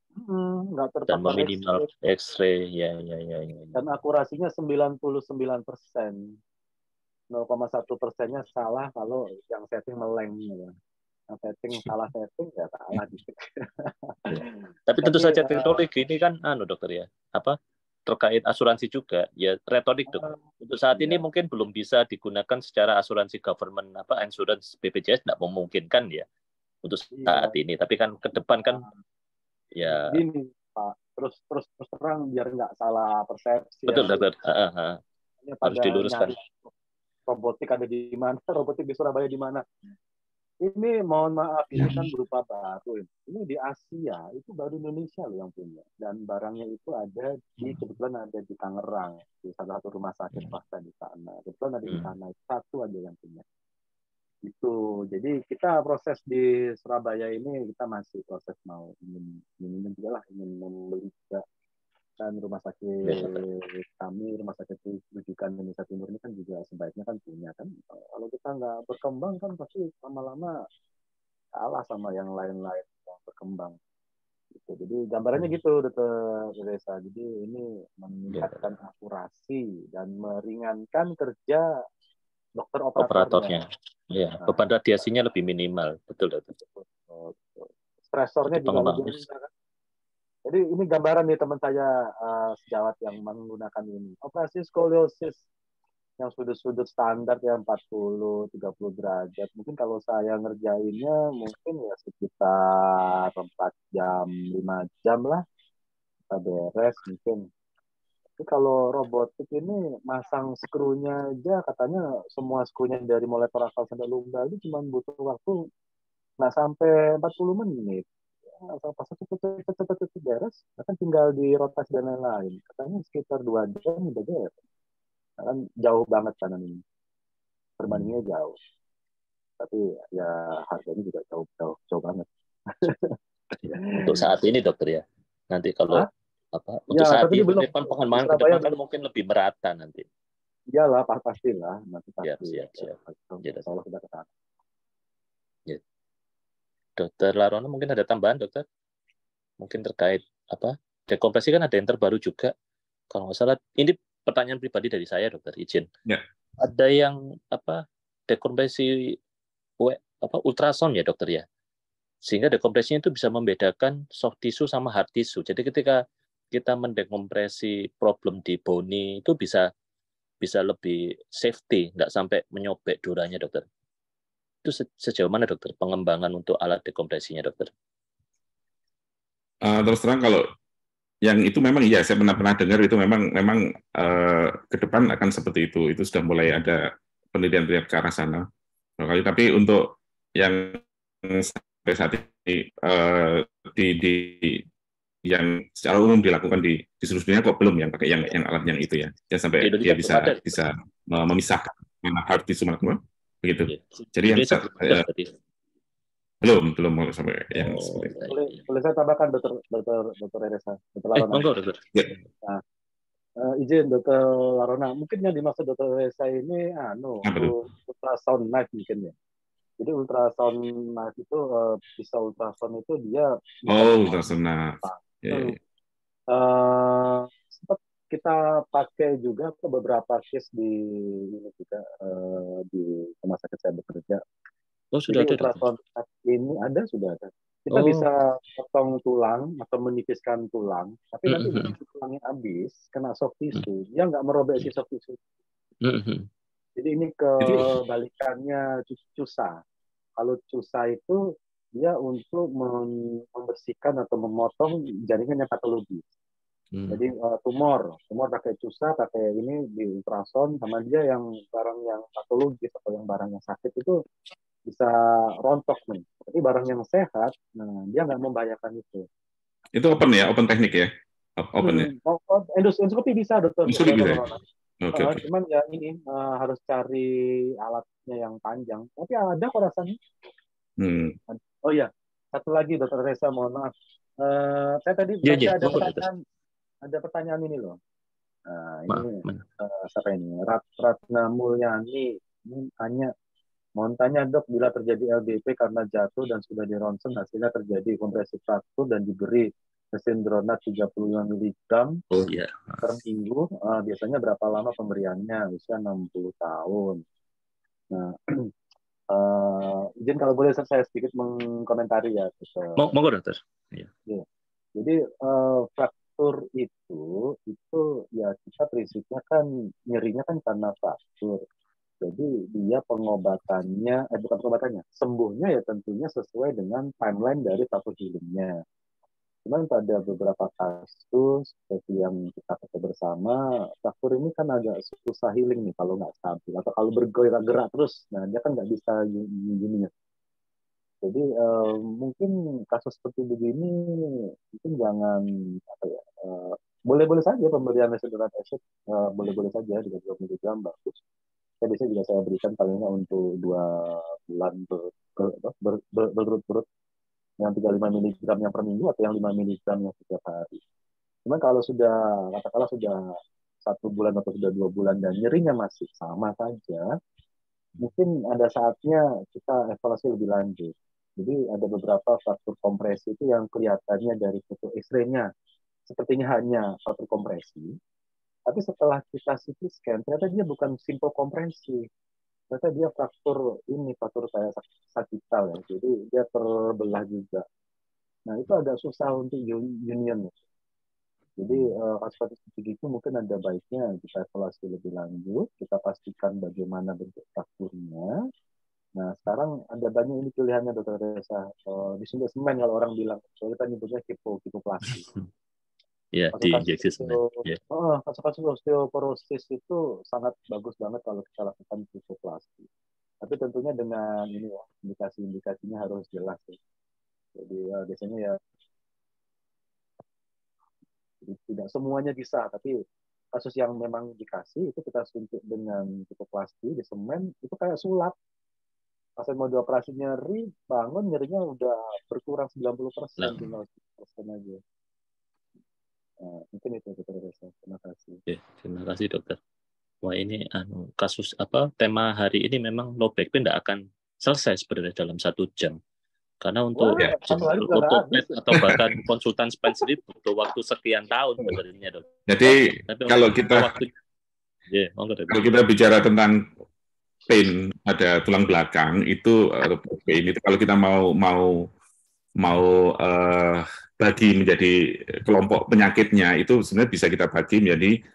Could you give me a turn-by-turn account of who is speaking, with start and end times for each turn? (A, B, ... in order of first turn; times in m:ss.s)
0:00.2-0:01.9 A
0:01.1-0:03.8 B
0:03.8-0:06.2 A
0:07.3-0:10.7 A
0:11.3-0:15.8 A
0:14.3-0:26.3 B
0:20.1-0:20.4 A
0:20.9-0:21.2 A
0:26.8-0:28.8 B
0:27.1-0:27.6 A
0:28.6-0:29.0 A
0:29.8-0:30.2 B
0:29.8-0:34.2 A
0:33.9-0:35.0 B
0:35.4-0:36.7 A
0:35.6-0:36.4 B
0:37.3-0:39.6 A
0:40.6-0:53.4 A
0:41.8-0:42.0 B
0:47.6-0:47.9 B
0:51.9-0:52.1 B
0:54.4-1:01.4 A
1:02.2-1:10.5 A
1:03.0-1:03.4 B
1:11.6-1:13.8 A
1:14.5-1:21.7 A
1:18.3-1:18.7 B
1:22.6-1:23.6 A
1:23.0-1:26.6 B
1:26.7-1:29.5 A
1:28.5-1:29.2 B
1:30.5-1:35.4 A
1:36.2-1:45.4 A
1:46.3-1:47.5 A
1:48.4-1:55.6 A
1:56.4-1:58.0 A
1:58.6-2:04.5 A
2:05.4-2:06.8 A
2:07.8-2:08.5 A
2:09.6-2:13.2 A
2:13.6-2:20.0 B
2:13.7-2:14.3 A
2:16.9-2:18.8 A
2:20.7-2:24.3 A
2:22.2-2:23.7 B
2:27.0-2:28.6 B
2:29.6-2:32.5 B
2:33.1-2:35.9 B
2:36.6-2:39.2 B
2:39.8-2:41.4 B
2:42.3-2:49.7 B
2:50.4-2:53.6 B
2:54.6-2:57.7 B
2:59.6-3:00.4 C
3:01.2-3:06.8 C
3:07.3-3:08.5 C
3:09.0-3:14.6 C
3:15.3-3:25.0 C
3:19.6-3:20.6 B
3:23.7-3:25.3 B
3:26.4-3:28.1 C
3:27.5-3:28.6 B
3:28.3-3:31.5 A
3:31.2-3:31.9 B
3:33.4-3:39.1 A
3:37.2-3:37.6 C
3:39.8-3:44.3 A
3:43.7-3:45.6 C
3:44.8-3:45.6 A
3:46.3-3:50.8 A
3:51.3-3:54.2 A
3:54.9-3:55.7 B
3:55.1-4:05.2 A
3:57.7-3:58.1 B
4:01.3-4:01.7 B
4:05.8-4:06.3 B
4:06.8-4:09.6 A
4:10.2-4:11.2 A
4:11.8-4:16.0 A
4:16.7-4:17.0 B
4:16.9-4:24.0 A
4:24.7-4:29.1 A
4:29.8-4:31.9 C
4:31.6-4:34.4 A
4:33.7-4:34.2 C
4:34.8-4:35.2 C
4:34.9-4:37.1 A
4:37.6-4:40.0 A
4:40.8-4:41.2 C
4:41.3-4:46.2 A
4:45.2-4:46.1 B
4:46.8-4:47.8 A
4:48.5-4:53.1 A
4:48.9-4:49.4 B
4:53.8-5:02.0 A
5:02.1-5:03.0 B
5:02.8-5:07.0 A
5:07.9-5:08.5 A
5:09.1-5:12.8 A
5:12.8-5:13.9 B
5:14.8-5:21.4 A
5:22.0-5:28.5 A
5:29.5-5:39.9 A
5:41.0-5:43.8 A
5:44.5-5:51.0 A
5:51.6-5:56.6 A
5:57.4-6:00.6 A
6:01.3-6:03.0 A
6:03.7-6:06.9 A
6:07.8-6:15.3 A
6:15.9-6:17.7 A
6:18.5-6:21.9 A
6:22.5-6:27.5 A
6:28.3-6:30.4 A
6:31.4-6:38.1 A
6:39.0-6:45.1 A
6:44.9-6:45.2 B
6:46.2-6:47.6 B
6:46.4-6:52.7 A
6:53.2-6:56.6 A
6:57.4-6:58.4 A
7:01.2-7:02.7 A
7:03.3-7:08.1 A
7:09.2-7:14.6 A
7:13.2-7:13.5 B
7:16.2-7:18.2 A
7:18.3-7:19.4 B
7:20.0-7:25.8 B
7:26.4-7:32.0 B
7:26.8-7:28.4 A
7:32.3-7:33.7 C
7:32.9-7:33.9 B
7:34.7-7:35.4 B
7:35.3-7:36.4 C
7:37.3-7:41.7 C
7:42.4-7:48.0 C